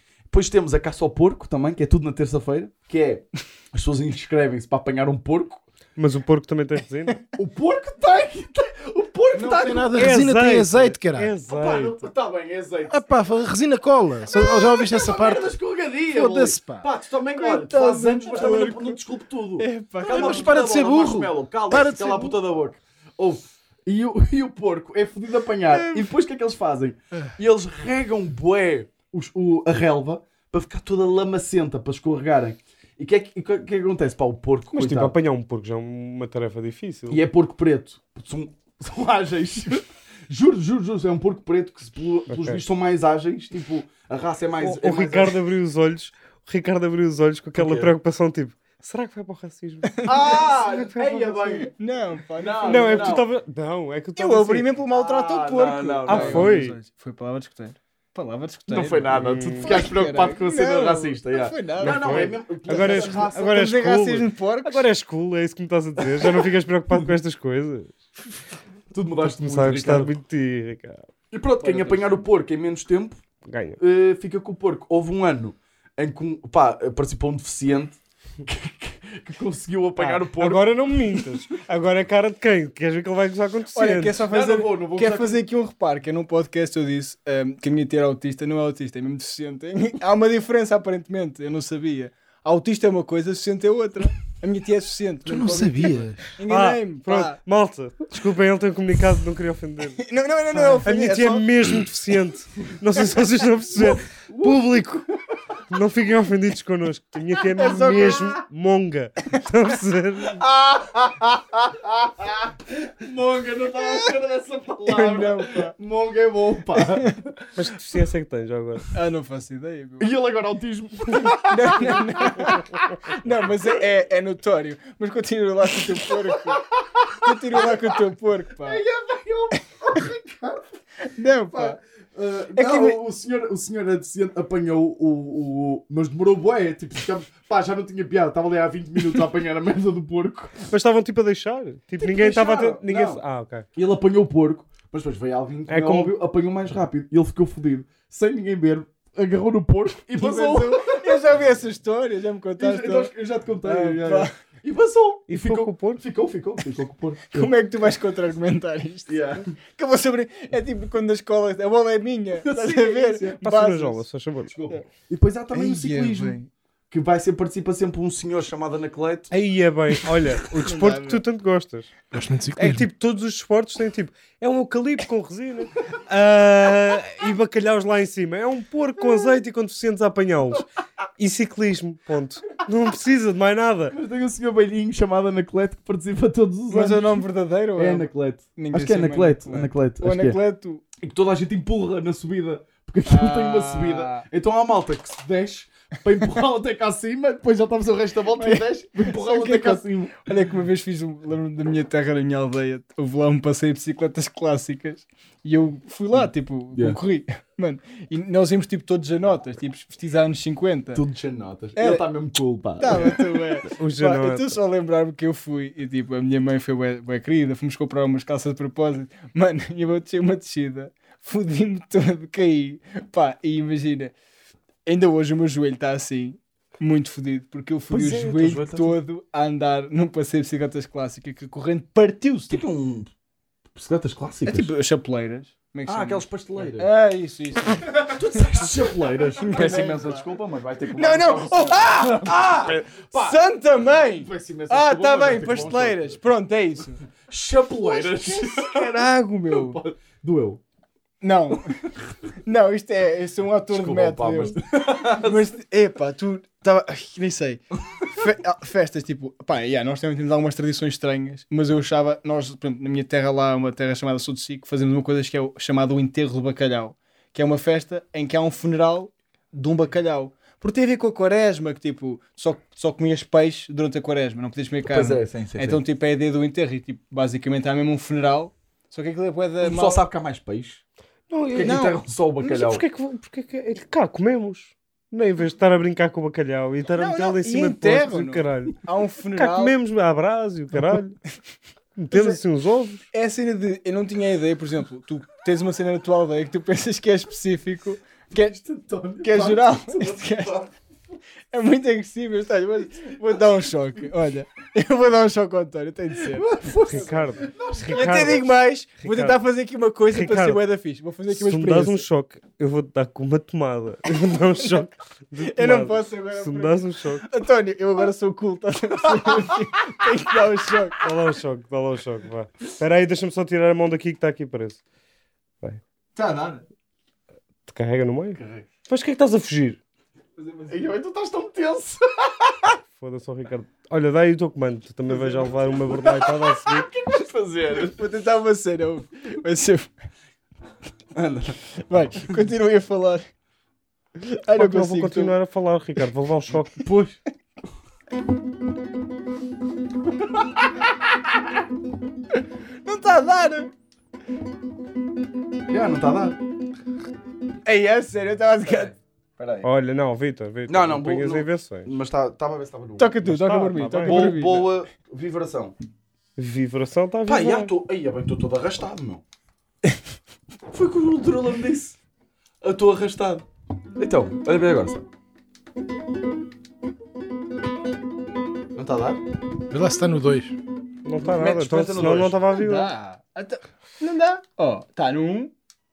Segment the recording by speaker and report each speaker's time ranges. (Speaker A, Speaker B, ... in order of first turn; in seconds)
Speaker A: 0.3-5.6, 7.3-10.2, 11.4-13.4, 14.2-35.1, 37.1-45.4, 47.5-47.9, 50.0-51.7, 52.4-53.2, 54.9-56.5, 58.7-63.6, 68.9-70.1, 71.3-73.2, 73.8-81.2, 84.3-85.4, 103.8-104.8, 110.4-117.2, 120.0-122.6, 126.1-128.0, 128.6-130.6, 131.5-140.6, 142.0-143.2, 143.8-151.3, 152.6-157.5, 159.1-159.4, 162.4-163.4, 164.5-166.4, 166.9-169.3, 183.9-190.4, 191.0-200.2, 210.9-213.3, 227.9-229.0, 232.5-233.1, 233.7-234.7, 235.9-236.9, 238.1-246.2, 247.2-250.6, 253.7-255.5, 274.9-275.8, 279.6-280.8, 281.5-282.8, 298.5-300.7, 306.3-308.4, 328.4-328.6, 330.7-332.7, 335.1-338.0, 341.1-341.6, 346.8-347.2, 355.7-356.4, 359.4-359.7, 360.7-363.1, 364.0-365.7, 367.3-369.2, 370.7-372.0, 372.6-373.4, 374.0-375.0, 378.8-379.2, 381.2-382.4
Speaker B: 6.0-7.2, 9.9-12.0, 34.7-37.2, 42.3-42.6, 44.6-51.7, 52.6-54.7, 56.1-56.8, 59.1-59.8, 61.8-67.9, 69.2-71.1, 73.4-73.8, 80.0-84.2, 96.5-100.0, 100.8-105.0, 105.7-110.4, 117.5-118.8, 140.7-143.6, 145.7-146.1, 155.3-156.0, 163.4-164.5, 169.3-171.9, 172.5-180.7, 181.2-183.9, 213.7-214.6, 281.3-281.8, 282.4-288.8, 289.3-291.2, 291.9-293.1, 306.8-309.4, 310.1-310.6, 311.3-317.3, 321.0-324.8, 327.7-329.8, 332.9-336.9, 344.5-346.8, 359.6-361.9, 363.2-364.3, 366.4-367.7, 381.0-382.9
Speaker C: 9.3-11.3, 12.9-15.5, 16.1-16.9, 20.1-22.4, 95.2-96.3, 172.1-172.9, 379.7-380.6
Speaker D: 17.3-19.0, 19.6-20.6, 25.7-26.1, 49.9-50.4, 51.6-53.2, 54.1-64.9, 71.6-72.2, 83.7-97.4, 100.0-101.5, 107.5-108.4, 113.8-114.1, 114.8-115.7, 116.8-117.1, 118.9-120.1, 121.1-126.6, 127.2-128.8, 131.0-131.8, 132.5-133.0, 150.1-153.1, 153.6-154.3, 157.3-159.2, 159.8-164.0, 165.5-166.5, 170.6-171.2, 186.7-190.8, 193.1-194.2, 198.4-211.0, 211.8-212.0, 212.8-224.1, 224.8-232.6, 234.4-238.6, 239.4-240.2, 240.9-247.0, 247.8-249.8, 251.2-251.8, 252.4-280.1, 281.6-282.0, 286.9-289.8, 292.1-292.4, 293.1-298.6, 299.2-300.6, 301.5-307.1, 307.9-312.0, 315.4-321.0, 326.1-326.6, 330.4-330.9, 337.9-339.9, 341.9-343.3, 344.2-345.3, 352.8-353.7, 357.6-358.9, 363.0-364.7, 382.5-385.5